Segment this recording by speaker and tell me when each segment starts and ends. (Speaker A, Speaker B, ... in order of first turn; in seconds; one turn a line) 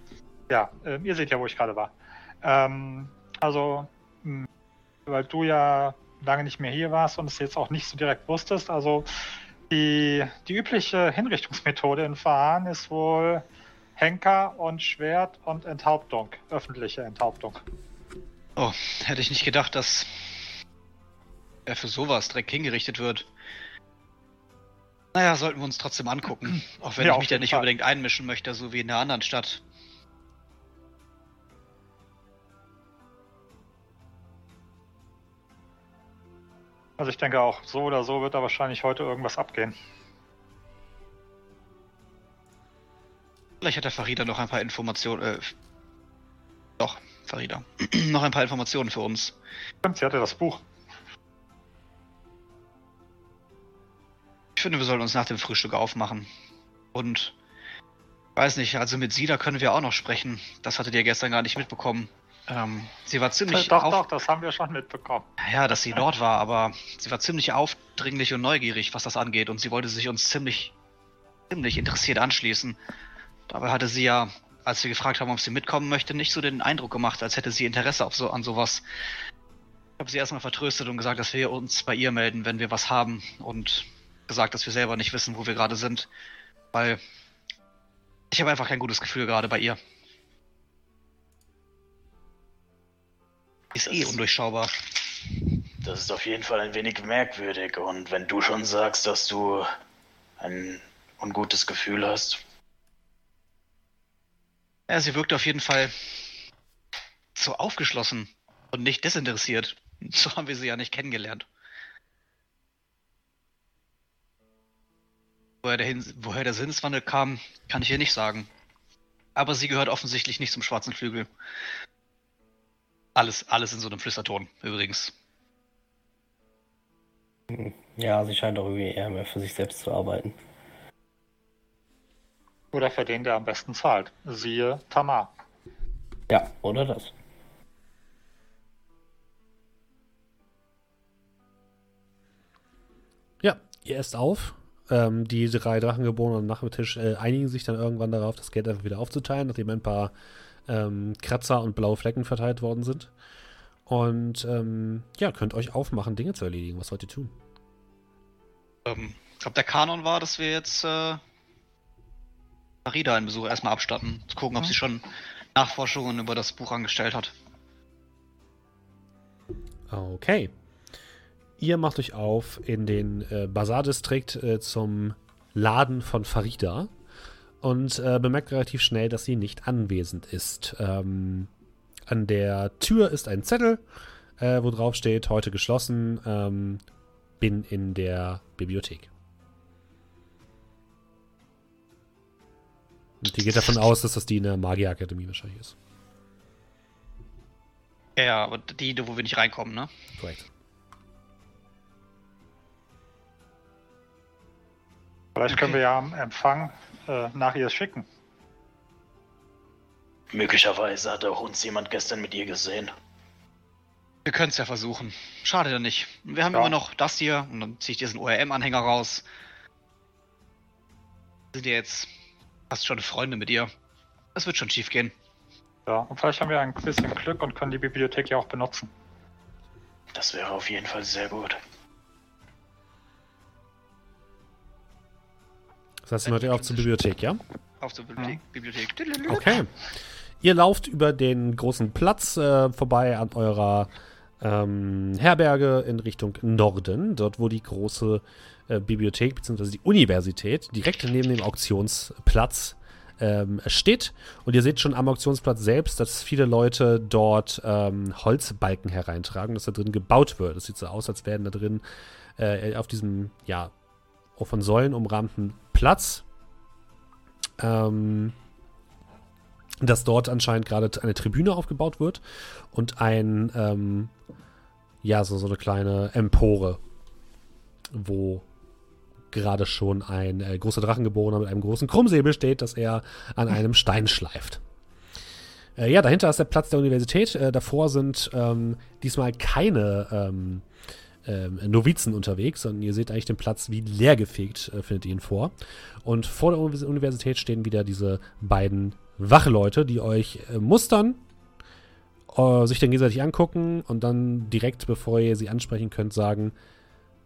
Speaker A: 0.5-4.5
Speaker A: 5.1-9.1
Speaker A: 9.7-13.4
Speaker A: 14.0-17.6
Speaker B: 18.6-20.5
Speaker B: 21.7-23.3
Speaker B: 25.1-29.6
Speaker A: 27.0-27.7
Speaker A: 37.0-39.8
Speaker B: 43.6-45.5
Speaker B: 46.8-49.4
Speaker A: 49.8-50.6
Speaker B: 54.6-56.3
Speaker B: 56.9-57.4
Speaker B: 58.4-64.0
Speaker A: 63.5-65.3
Speaker B: 65.4-70.7
Speaker B: 71.5-72.8
Speaker B: 73.5-78.8
Speaker B: 80.0-86.1
Speaker B: 86.7-87.0
Speaker B: 88.3-89.8
Speaker B: 93.7-95.2
Speaker C: 93.8-94.2
Speaker C: 95.8-99.7
Speaker C: 100.4-102.4
Speaker B: 104.9-106.3
Speaker B: 107.4-111.5
Speaker B: 115.6-118.5
Speaker B: 119.4-121.3
Speaker B: 123.2-125.1
Speaker D: 127.5-130.4
Speaker A: 132.7-135.3
Speaker D: 136.3-137.1
Speaker E: 143.4-150.1
Speaker E: 150.7-153.1
Speaker E: 153.9-157.3
Speaker B: 158.9-161.2
Speaker B: 162.8-167.3
Speaker E: 169.9-170.5
Speaker E: 171.6-176.9
Speaker E: 177.6-181.5
Speaker E: 182.1-183.8
Speaker E: 184.4-186.8
Speaker E: 187.4-189.1
Speaker E: 193.2-195.8
Speaker B: 198.2-199.9
Speaker E: 200.2-200.5
Speaker A: 205.4-208.1
Speaker C: 210.3-212.9
Speaker B: 214.2-219.3
Speaker B: 221.5-222.1
Speaker B: 222.7-223.7
Speaker B: 224.3-225.1
Speaker A: 225.9-228.9
Speaker C: 230.1-231.6
Speaker E: 236.0-237.4
Speaker B: 236.3-236.9
Speaker B: 237.8-239.6
Speaker E: 239.3-239.7
Speaker E: 240.4-261.8
Speaker E: 262.4-263.7
Speaker E: 264.4-266.2
Speaker E: 267.6-268.4
Speaker E: 269.8-274.1
Speaker E: 275.0-276.8
Speaker E: 277.9-278.4
Speaker E: 279.3-284.6
Speaker E: 285.8-290.7
Speaker E: 291.2-301.2
Speaker E: 302.3-306.6